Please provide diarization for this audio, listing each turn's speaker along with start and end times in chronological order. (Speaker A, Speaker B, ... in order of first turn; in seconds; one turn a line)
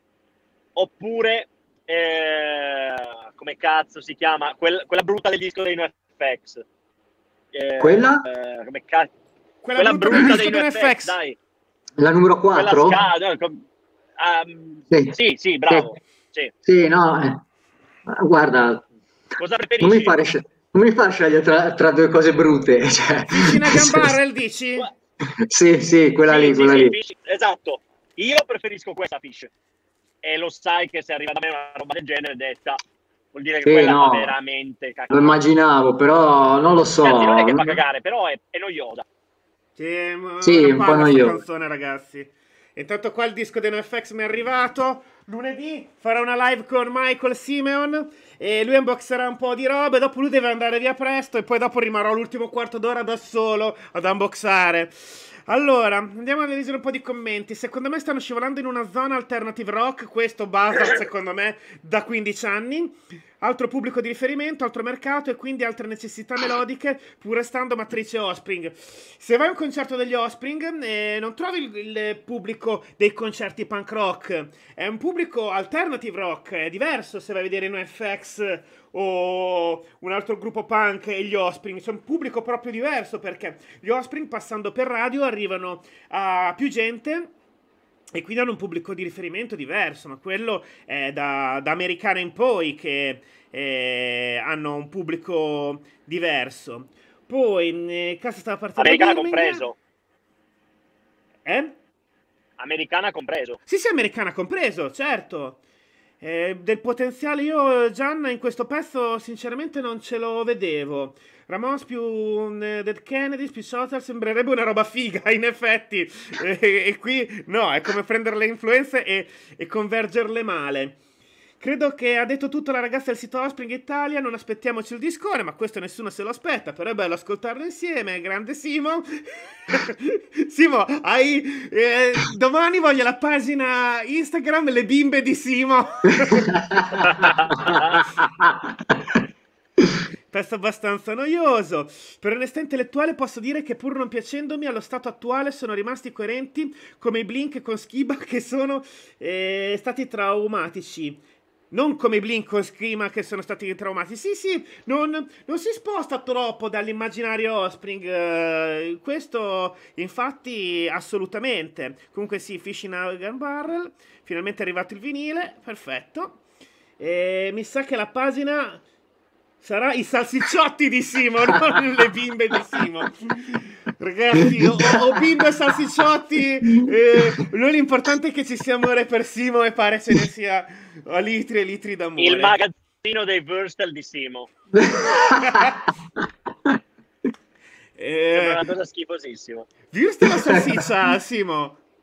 Speaker A: 0.7-6.6
Speaker A: 7.5-9.1
Speaker B: 7.8-8.2
Speaker C: 9.6-11.2
Speaker A: 9.8-11.3
Speaker B: 12.0-13.0
Speaker A: 12.5-13.6
Speaker A: 14.2-16.5
Speaker B: 15.7-16.0
Speaker B: 16.6-17.4
Speaker B: 18.1-18.9
Speaker A: 19.4-20.1
Speaker B: 19.8-24.1
Speaker C: 23.3-24.9
Speaker B: 25.4-26.9
Speaker A: 26.2-29.5
Speaker A: 30.2-32.8
Speaker A: 33.3-35.4
Speaker B: 33.6-34.3
Speaker B: 35.1-37.8
Speaker A: 37.0-39.0
Speaker C: 39.8-87.3
Speaker B: 40.4-41.4
Speaker C: 88.1-99.6
Speaker A: 98.8-99.8
Speaker C: 101.5-101.8
Speaker A: 102.6-103.6
Speaker C: 103.7-105.6
Speaker C: 106.2-121.0
Speaker C: 121.6-136.5
Speaker B: 136.2-138.9
Speaker A: 137.0-138.0
Speaker C: 140.3-151.2
Speaker C: 151.7-166.4
Speaker C: 167.0-168.8
Speaker C: 169.6-182.6
Speaker A: 182.2-184.5
Speaker B: 184.8-185.8
Speaker C: 185.3-185.7
Speaker C: 188.0-188.6
Speaker A: 188.3-189.7
Speaker C: 189.9-191.8